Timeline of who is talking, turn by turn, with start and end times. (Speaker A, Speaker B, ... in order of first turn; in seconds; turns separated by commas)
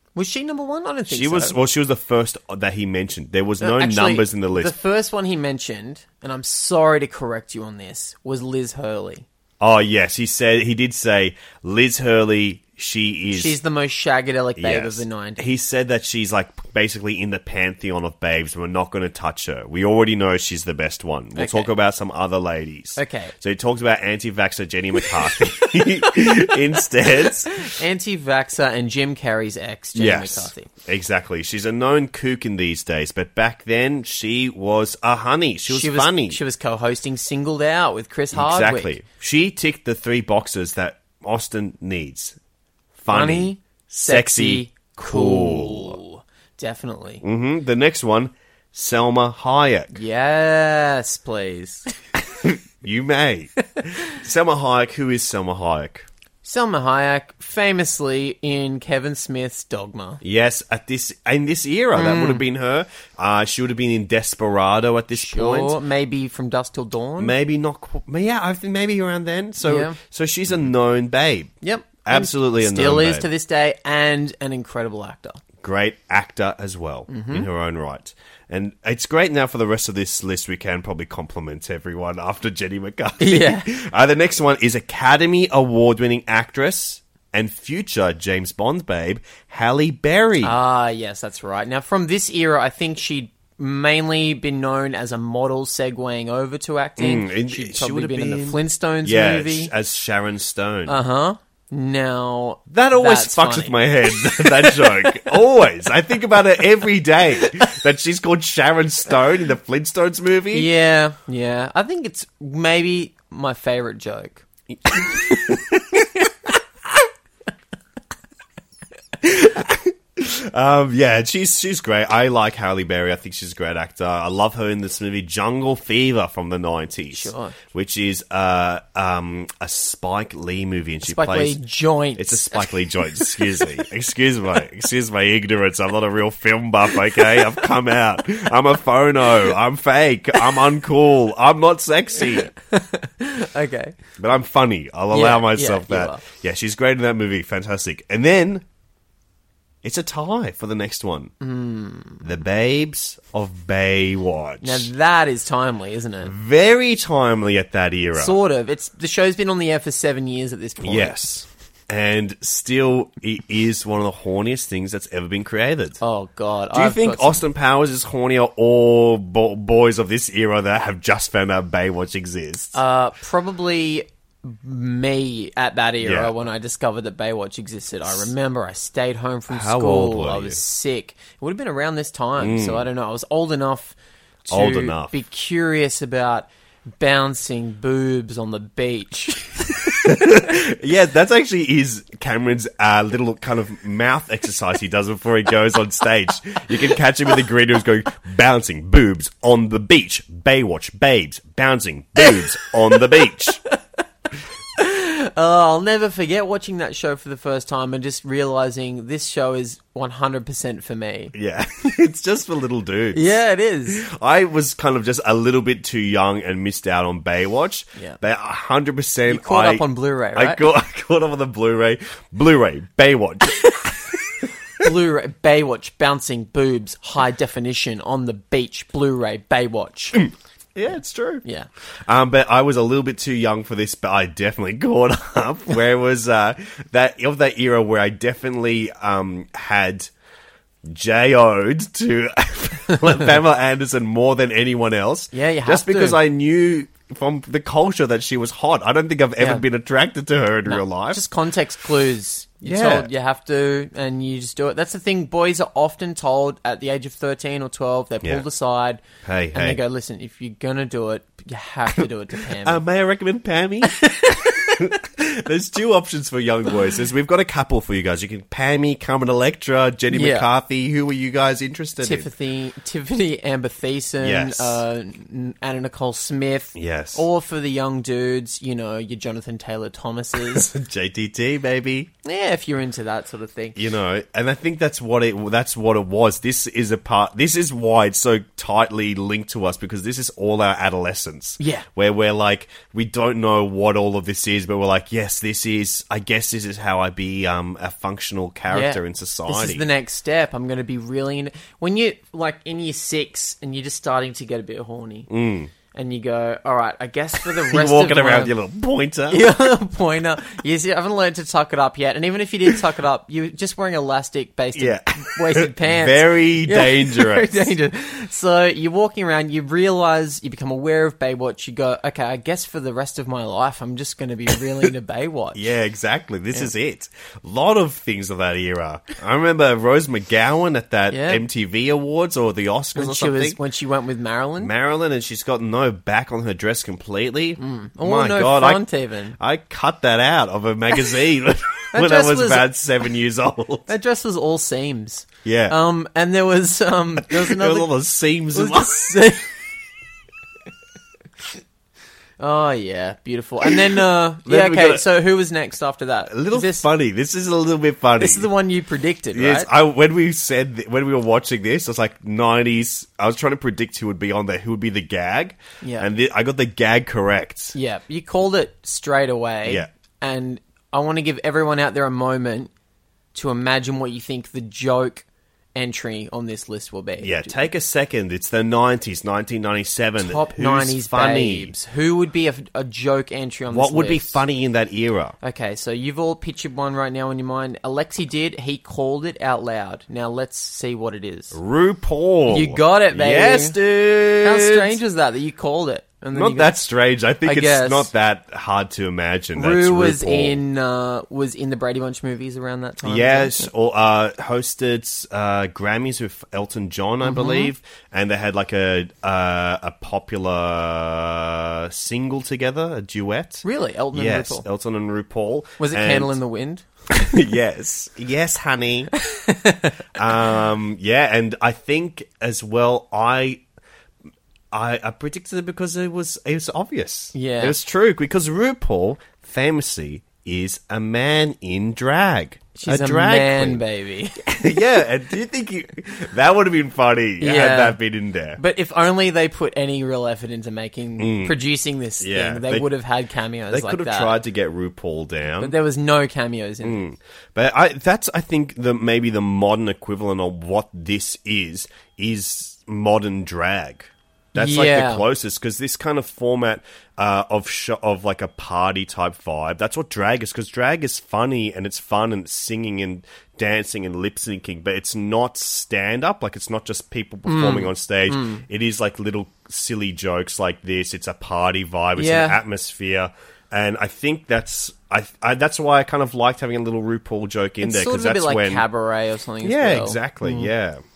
Speaker A: 0.1-1.6, Speaker B: 1.1-4.7, Speaker A: 3.6-9.2, Speaker B: 9.6-13.6, Speaker A: 13.3-15.4, Speaker B: 14.6-27.7, Speaker A: 21.4-21.7, Speaker A: 22.9-23.3, Speaker A: 27.6-30.7, Speaker B: 29.9-36.4, Speaker A: 35.7-39.0, Speaker B: 38.3-42.4, Speaker B: 42.9-46.0, Speaker A: 43.1-47.2, Speaker B: 47.2-49.9, Speaker A: 49.9-51.9, Speaker B: 52.4-56.1, Speaker A: 56.4-60.2, Speaker B: 60.2-65.8, Speaker A: 61.9-62.4, Speaker A: 65.2-67.3, Speaker B: 67.2-71.5, Speaker A: 69.6-70.0, Speaker A: 71.6-75.4, Speaker B: 72.0-73.3, Speaker B: 75.6-90.6, Speaker A: 77.1-77.5, Speaker A: 83.2-83.7, Speaker A: 90.4-99.7, Speaker B: 97.0-101.0, Speaker A: 100.9-105.3, Speaker B: 102.7-110.7, Speaker A: 110.5-114.4, Speaker B: 114.8-116.0, Speaker B: 119.2-131.6, Speaker A: 127.1-127.5, Speaker A: 131.0-133.7, Speaker B: 132.2-142.5, Speaker A: 142.6-143.9, Speaker B: 144.2-148.6, Speaker A: 145.1-146.2, Speaker B: 149.8-151.3, Speaker A: 151.4-152.2, Speaker B: 152.2-154.9, Speaker A: 154.6-156.3, Speaker B: 156.2-158.3, Speaker A: 158.2-161.2, Speaker B: 160.8-166.0, Speaker A: 166.0-167.4, Speaker B: 166.7-172.8, Speaker A: 172.7-186.5, Speaker B: 176.0-176.4, Speaker B: 179.5-180.6, Speaker B: 182.4-182.9, Speaker B: 184.5-185.1, Speaker A: 187.0-190.1, Speaker B: 190.0-203.6, Speaker A: 204.8-211.3, Speaker B: 211.3-223.6, Speaker A: 213.1-214.0, Speaker A: 219.3-220.6, Speaker A: 224.8-230.2, Speaker B: 230.2-231.4, Speaker B: 232.1-240.1, Speaker B: 240.8-251.2, Speaker A: 245.3-246.2, Speaker A: 249.4-249.6, Speaker A: 250.7-259.0, Speaker B: 252.6-253.1, Speaker B: 259.2-259.8, Speaker A: 259.5-262.8, Speaker B: 261.9-272.3, Speaker A: 270.1-270.5, Speaker A: 272.0-280.7, Speaker B: 274.2-274.8, Speaker B: 276.7-277.2, Speaker B: 280.4-282.1, Speaker A: 282.2-283.8, Speaker B: 283.7-299.9, Speaker A: 291.6-291.9, Speaker A: 298.7-305.3, Speaker B: 305.3-305.7, Speaker A: 305.9-308.5, Speaker B: 307.6-309.5, Speaker A: 309.3-325.7, Speaker B: 314.7-317.7, Speaker B: 325.5-333.6, Speaker A: 331.1-331.4, Speaker A: 332.9-334.7, Speaker B: 334.6-338.9, Speaker A: 337.6-339.4, Speaker B: 339.4-343.9, Speaker A: 341.9-342.7, Speaker A: 343.9-347.9, Speaker B: 345.4-345.8, Speaker B: 347.3-349.1, Speaker A: 348.5-349.5, Speaker A: 352.4-356.8, Speaker B: 354.4-355.1, Speaker B: 356.3-358.5, Speaker A: 358.2-359.7, Speaker B: 359.3-367.7, Speaker A: 365.8-366.1, Speaker A: 367.7-372.7, Speaker A: 373.3-377.6, Speaker B: 377.2-381.7, Speaker A: 380.2-384.4, Speaker B: 383.7-385.4, Speaker A: 385.4-391.6, Speaker B: 391.5-395.0, Speaker A: 392.5-393.8, Speaker A: 394.4-396.8, Speaker B: 396.3-400.6, Speaker A: 397.4-398.1, Speaker A: 399.6-403.7, Speaker B: 403.0-416.4, Speaker A: 407.2-407.7, Speaker A: 413.6-414.6, Speaker A: 415.8-416.8, Speaker B: 417.1-419.1, Speaker A: 419.2-419.9, Speaker B: 420.1-423.6, Speaker B: 424.7-433.8, Speaker A: 427.3-427.8, Speaker A: 432.7-434.6, Speaker B: 434.5-438.6, Speaker A: 437.4-438.0, Speaker A: 438.6-444.4, Speaker B: 441.2-441.6, Speaker B: 442.2-442.9, Speaker B: 443.7-445.7, Speaker A: 445.6-447.0, Speaker B: 446.8-478.8, Speaker A: 454.5-455.3, Speaker A: 467.4-468.6, Speaker A: 472.1-472.6, Speaker A: 477.8-480.7, Speaker B: 479.6-481.0